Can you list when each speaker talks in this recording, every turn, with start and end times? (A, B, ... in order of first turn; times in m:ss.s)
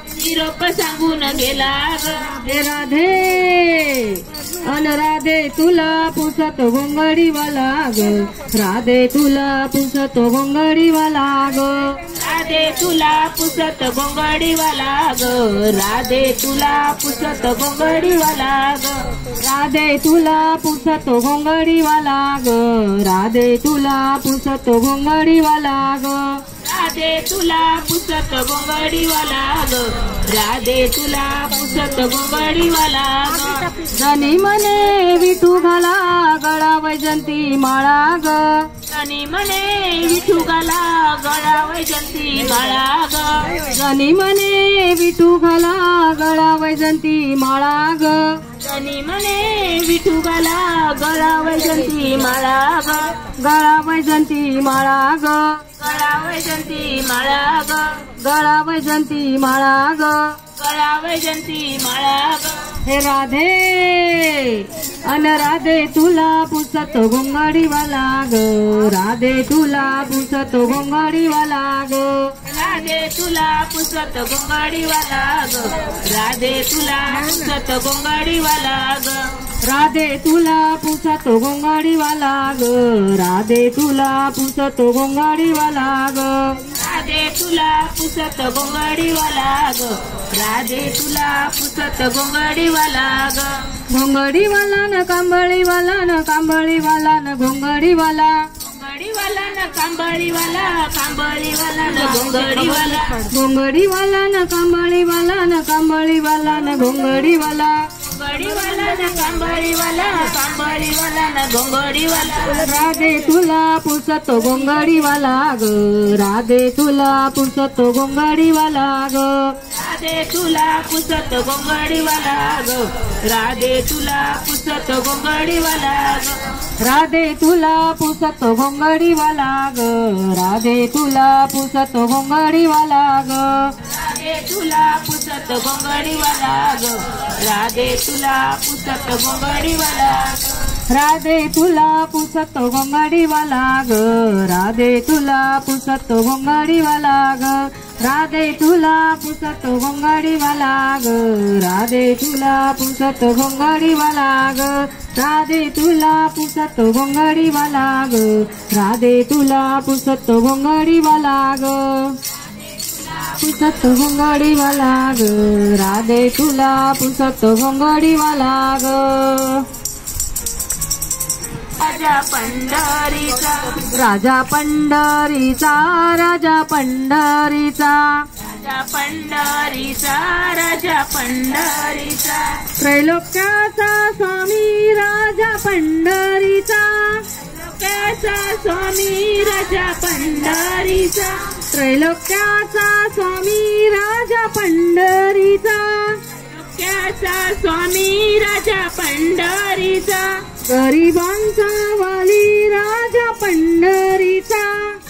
0:00.2-0:02.4 A
0:02.4-0:12.0 B
0:12.2-0:19.0 A
0:19.4-0:26.4 B
0:26.6-0:33.6 A
0:34.0-0:38.6 B
0:38.9-0:43.5 A
0:43.7-0:48.2 B
0:48.6-0:53.0 A
0:53.4-0:55.6 B
0:55.8-0:58.0 A
0:58.2-1:00.4 B
1:00.6-1:02.6 A
1:02.9-1:12.3 B
1:12.5-1:19.2 A
1:19.6-1:26.6 B
1:26.7-1:33.5 A
1:33.9-1:38.3 B
1:38.7-1:43.3 A
1:43.3-1:47.8 B
1:48.0-1:52.6 A
1:52.6-1:59.5 B
1:59.7-2:06.4 A
2:06.8-2:13.6 B
2:13.9-2:20.5 A
2:20.9-2:42.1 B
2:43.4-2:49.6 B
2:51.8-2:53.8 A
2:53.9-2:58.2 B
2:58.4-3:02.6 A
3:02.8-3:07.2 B
3:07.5-3:11.5 A
3:11.7-3:16.2 B
3:16.5-3:20.4 A
3:20.7-3:25.0 B